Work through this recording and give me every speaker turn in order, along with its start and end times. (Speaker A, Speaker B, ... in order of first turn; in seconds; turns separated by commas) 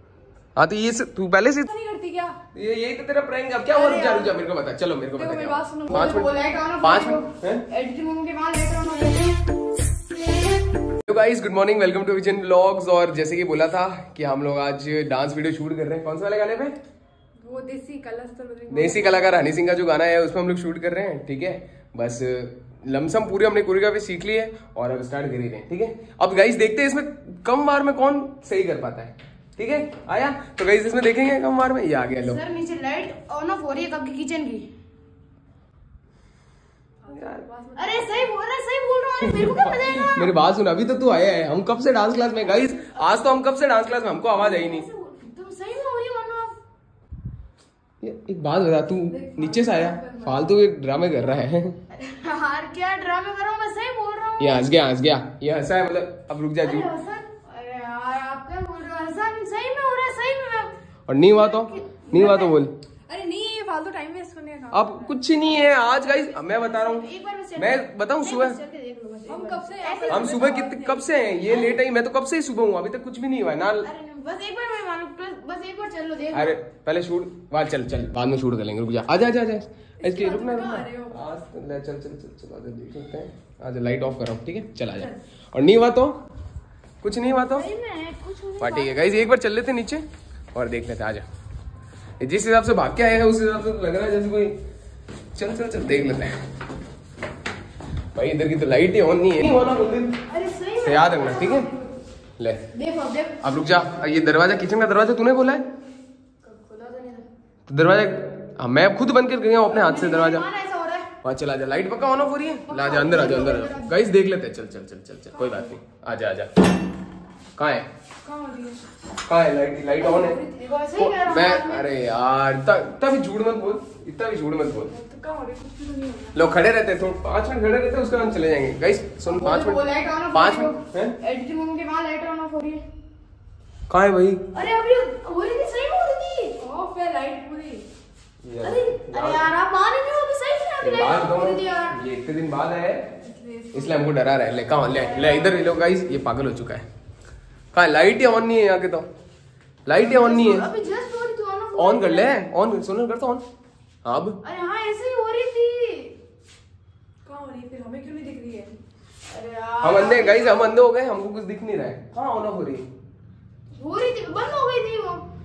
Speaker A: 0.6-1.7, Speaker B: 1.7-2.4, Speaker A: 2.5-7.6, Speaker C: 3.7-4.3, Speaker B: 5.2-6.3, Speaker C: 5.9-9.4, Speaker A: 11.0-16.8, Speaker B: 17.4-19.5, Speaker A: 18.7-32.4, Speaker C: 32.2-34.7, Speaker B: 37.0-38.3, Speaker A: 37.1-37.5, Speaker C: 37.8-40.3, Speaker A: 39.2-44.9, Speaker C: 42.5-43.3, Speaker C: 44.3-46.6, Speaker A: 48.0-51.8, Speaker B: 49.1-50.6, Speaker C: 51.9-54.7, Speaker A: 54.4-56.9, Speaker C: 56.6-60.7, Speaker A: 61.1-62.7, Speaker C: 61.3-62.6, Speaker B: 63.1-65.1, Speaker A: 64.7-68.6, Speaker C: 65.7-70.6, Speaker B: 69.3-71.1, Speaker A: 70.1-73.9, Speaker C: 71.5-71.8, Speaker C: 73.8-76.6, Speaker A: 76.3-86.2, Speaker B: 80.0-81.2, Speaker A: 87.0-87.7, Speaker C: 87.5-89.3, Speaker A: 88.6-91.2, Speaker A: 92.2-94.6, Speaker A: 95.3-96.4, Speaker A: 98.1-100.2, Speaker C: 100.3-101.8, Speaker A: 100.8-101.7, Speaker A: 102.4-102.7, Speaker C: 102.7-103.4, Speaker A: 103.4-105.6, Speaker C: 106.4-107.3, Speaker A: 107.7-110.5, Speaker C: 109.6-111.1, Speaker A: 111.2-116.6, Speaker C: 112.7-114.0, Speaker A: 117.6-117.9, Speaker B: 118.2-118.8, Speaker A: 119.2-120.4, Speaker C: 120.0-121.9, Speaker A: 120.9-124.9, Speaker B: 124.9-126.4, Speaker A: 126.3-131.2, Speaker C: 129.2-132.8, Speaker A: 133.9-134.4, Speaker C: 134.5-136.6, Speaker B: 136.6-137.8, Speaker A: 138.4-139.5, Speaker C: 138.6-142.0, Speaker A: 140.8-143.0, Speaker B: 143.2-144.1, Speaker A: 143.7-146.8, Speaker C: 145.0-145.7, Speaker A: 147.7-149.1, Speaker A: 149.8-150.7, Speaker C: 149.9-152.4, Speaker A: 151.8-153.4, Speaker A: 154.0-154.4, Speaker C: 154.4-156.2, Speaker B: 157.2-158.8, Speaker C: 159.3-160.7, Speaker A: 159.8-162.9, Speaker C: 163.8-165.2